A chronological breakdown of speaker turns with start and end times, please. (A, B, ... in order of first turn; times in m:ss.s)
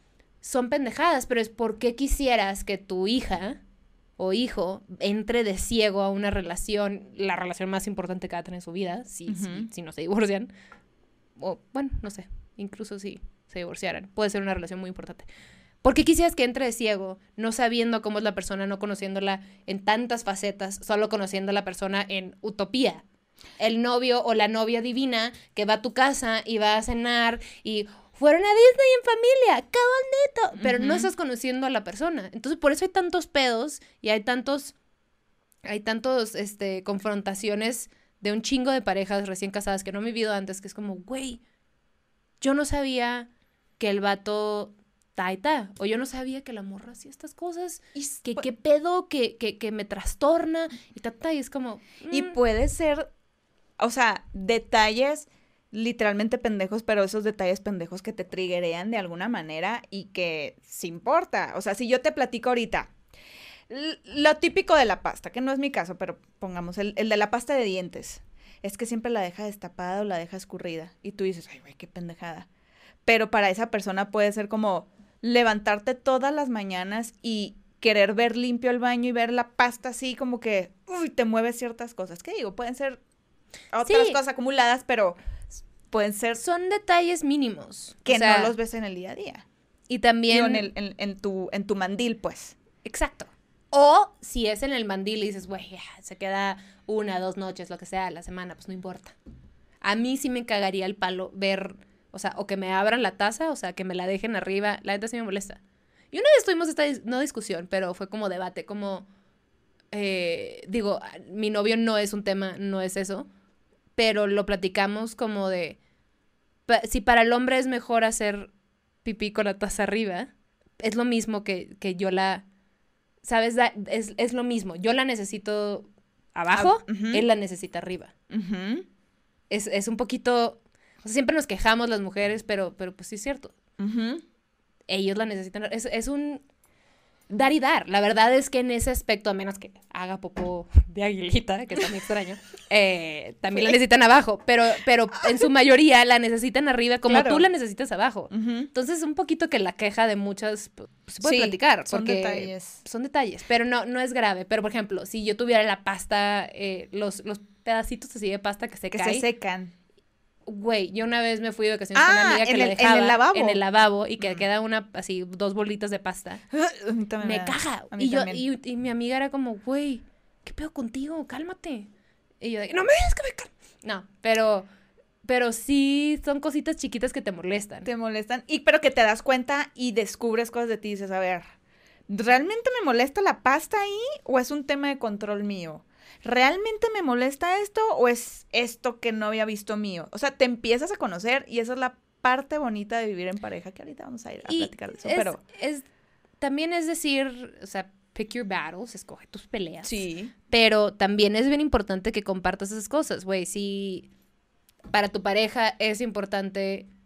0:00.4-0:03.6 A
0:04.2-0:10.5 A
0:09.3-0:09.7 B
0:11.4-0:15.3 A
0:15.8-0:23.0 A
0:23.6-0:34.7 A
0:30.6-0:31.1 B
0:35.6-0:41.4 A
0:42.4-0:52.4 A
0:47.9-0:48.4 B
0:52.1-0:53.1 B
0:53.8-1:02.9 B
1:03.7-1:12.5 B
1:13.0-1:23.0 B
1:23.7-1:25.2 B
1:23.8-1:24.2 A
1:25.9-1:26.4 B
1:26.4-1:28.5 A
1:28.0-1:29.4 B
1:29.9-1:30.7 A
1:30.3-1:32.6 B
1:32.8-1:39.1 A
1:39.8-1:45.6 A
1:46.1-1:49.0 A
1:49.9-1:53.3 A
1:54.0-1:55.8 A
1:56.7-1:58.5 A
1:59.0-2:02.4 A
2:03.2-2:08.1 A
2:06.5-2:07.2 B
2:08.3-2:08.8 B
2:09.5-2:13.5 A
2:13.8-2:14.2 B
2:14.9-2:16.4 A
2:17.3-2:39.2 A
2:27.1-2:27.4 B
2:28.3-2:28.7 B
2:31.2-2:32.8 B
2:38.9-2:39.7 B
2:40.5-2:46.4 A
2:41.9-2:43.6 B
2:44.2-2:44.4 B
2:46.5-2:48.4 B
2:47.2-2:51.9 A
2:52.4-2:54.6 A
2:55.2-2:57.9 A
2:57.8-3:01.4 B
3:02.1-3:15.4 B
3:14.5-3:15.8 A
3:16.4-3:24.1 A
3:19.8-3:20.3 B
3:24.9-3:26.9 A